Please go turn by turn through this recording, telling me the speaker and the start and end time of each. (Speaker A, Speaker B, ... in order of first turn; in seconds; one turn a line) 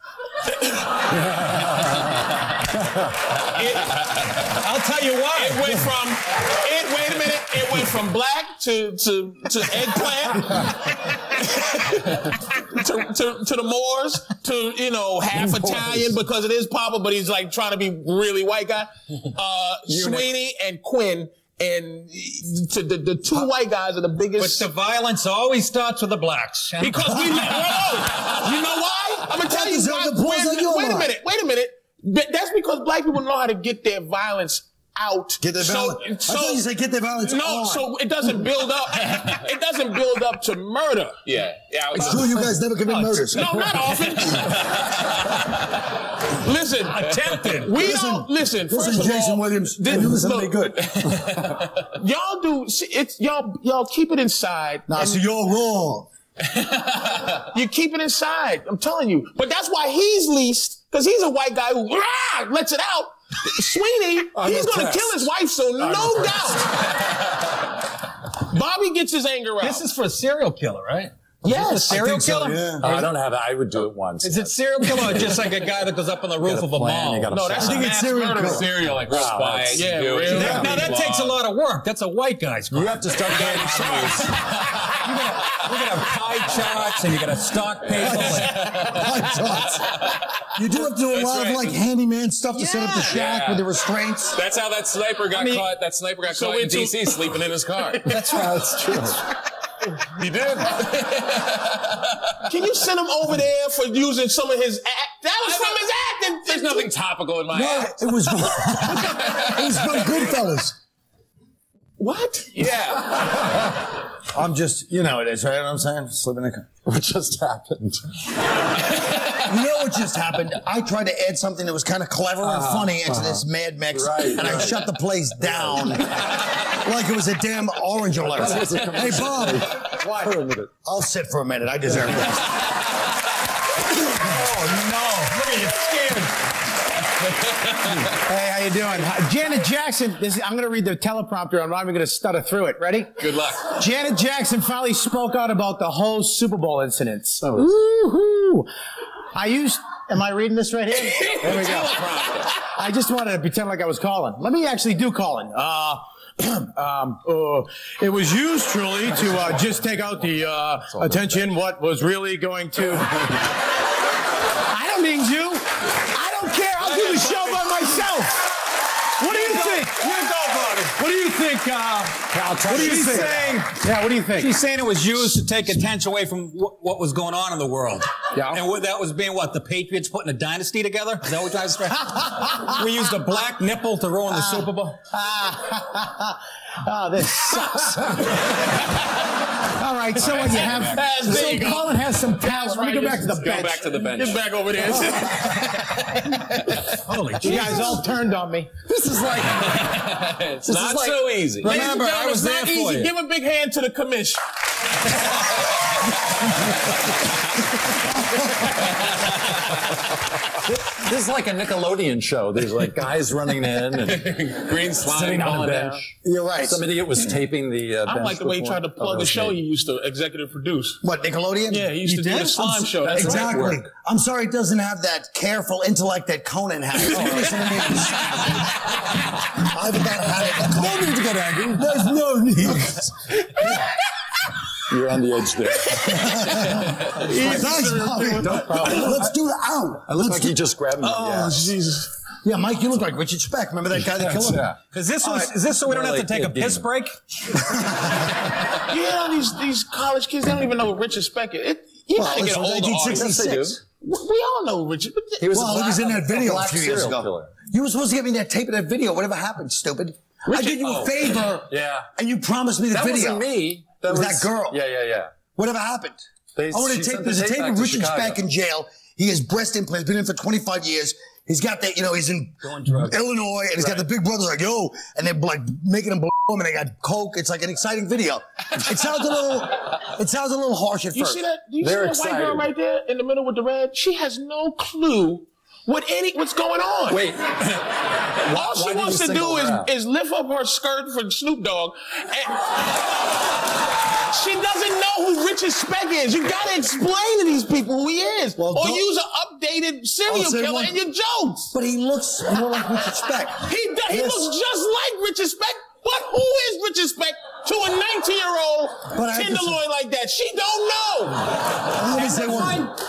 Speaker A: 0.4-1.1
Speaker A: 3.4-4.5
Speaker B: 4.5-5.9
Speaker A: 5.3-24.7
Speaker C: 19.9-20.2
Speaker B: 24.4-27.8
Speaker A: 26.8-41.2
Speaker D: 29.4-31.1
Speaker D: 35.4-37.9
Speaker E: 41.2-42.5
Speaker D: 41.9-43.7
Speaker A: 43.1-45.0
Speaker E: 44.6-45.5
Speaker A: 46.3-55.2
Speaker B: 46.9-47.7
Speaker D: 47.8-51.4
Speaker E: 51.0-51.6
Speaker D: 54.9-56.1
Speaker A: 56.9-66.9
Speaker B: 64.4-65.0
Speaker B: 65.8-66.5
Speaker A: 68.3-69.9
Speaker B: 69.6-73.1
Speaker A: 71.5-72.0
Speaker D: 71.5-72.8
Speaker C: 72.8-75.4
Speaker B: 74.2-77.6
Speaker C: 76.4-78.0
Speaker A: 77.3-78.8
Speaker D: 77.5-78.7
Speaker E: 78.5-81.4
Speaker C: 78.9-80.6
Speaker A: 79.7-81.0
Speaker B: 80.3-88.6
Speaker C: 82.7-84.3
Speaker E: 83.5-84.9
Speaker D: 88.0-89.8
Speaker E: 88.6-89.1
Speaker D: 90.5-94.4
Speaker E: 90.9-91.8
Speaker A: 92.5-93.2
Speaker E: 93.1-93.7
Speaker E: 94.3-98.1
Speaker B: 95.3-95.7
Speaker A: 96.3-98.4
Speaker B: 98.1-99.0
Speaker C: 98.3-99.2
Speaker E: 100.1-102.2
Speaker A: 102.5-107.0
Speaker E: 105.4-105.8
Speaker E: 106.4-110.3
Speaker D: 107.5-110.8
Speaker A: 112.0-112.9
Speaker E: 112.5-113.4
Speaker D: 114.2-116.7
Speaker C: 116.6-118.2
Speaker D: 119.2-130.0
Speaker C: 122.4-124.8
Speaker C: 125.4-125.9
Speaker C: 128.2-130.7
Speaker F: 129.9-130.4
Speaker D: 130.8-132.5
Speaker B: 134.3-136.2
Speaker F: 134.5-136.1
Speaker E: 137.3-138.0
Speaker F: 137.9-148.7
Speaker E: 143.2-143.7
Speaker F: 149.3-163.4
Speaker E: 151.3-152.5
Speaker F: 164.7-168.3
Speaker B: 166.9-167.6
Speaker F: 169.2-174.6
Speaker B: 169.2-169.9
Speaker B: 172.7-173.6
Speaker D: 172.7-173.4
Speaker B: 174.3-185.0
Speaker F: 178.3-178.6
Speaker F: 184.3-188.6
Speaker F: 189.6-194.1
Speaker E: 190.2-191.0
Speaker A: 190.4-193.2
Speaker E: 193.2-194.5
Speaker A: 194.0-196.0
Speaker F: 195.9-196.4
Speaker B: 197.1-198.0
Speaker F: 197.1-198.7
Speaker A: 197.5-197.9
Speaker C: 198.9-201.5
Speaker E: 199.2-201.8
Speaker A: 201.6-204.4
Speaker B: 201.6-203.1
Speaker C: 210.5-219.6
Speaker E: 214.1-215.9
Speaker D: 216.2-216.9
Speaker A: 218.0-221.0
Speaker D: 221.0-228.8
Speaker A: 221.7-223.8
Speaker A: 227.1-228.0
Speaker C: 227.1-227.5
Speaker D: 229.4-231.2
Speaker C: 230.4-232.1
Speaker D: 231.7-233.3
Speaker A: 233.6-233.8
Speaker C: 234.9-236.7
Speaker D: 236.0-240.6
Speaker A: 236.6-239.1
Speaker C: 238.4-239.3
Speaker C: 240.1-241.7
Speaker A: 241.0-242.1
Speaker D: 242.4-244.7
Speaker C: 243.9-246.9
Speaker B: 244.8-247.6
Speaker D: 247.7-248.3
Speaker A: 248.8-253.3
Speaker D: 252.2-253.8
Speaker C: 253.1-253.8
Speaker A: 254.0-255.5
Speaker C: 255.4-257.6
Speaker D: 255.5-263.5
Speaker C: 260.8-262.1
Speaker C: 262.9-265.3
Speaker D: 264.1-264.8
Speaker D: 265.6-281.4
Speaker C: 266.6-268.4
Speaker C: 272.7-273.1
Speaker C: 273.8-274.1
Speaker A: 281.1-287.3
Speaker C: 281.8-282.7
Speaker C: 287.1-289.9
Speaker A: 288.4-292.9
Speaker A: 294.3-301.7
Speaker D: 298.6-299.0
Speaker D: 300.3-301.0
Speaker D: 301.7-304.5
Speaker A: 303.6-311.7
Speaker D: 309.1-309.8
Speaker D: 311.9-312.9
Speaker B: 312.1-312.9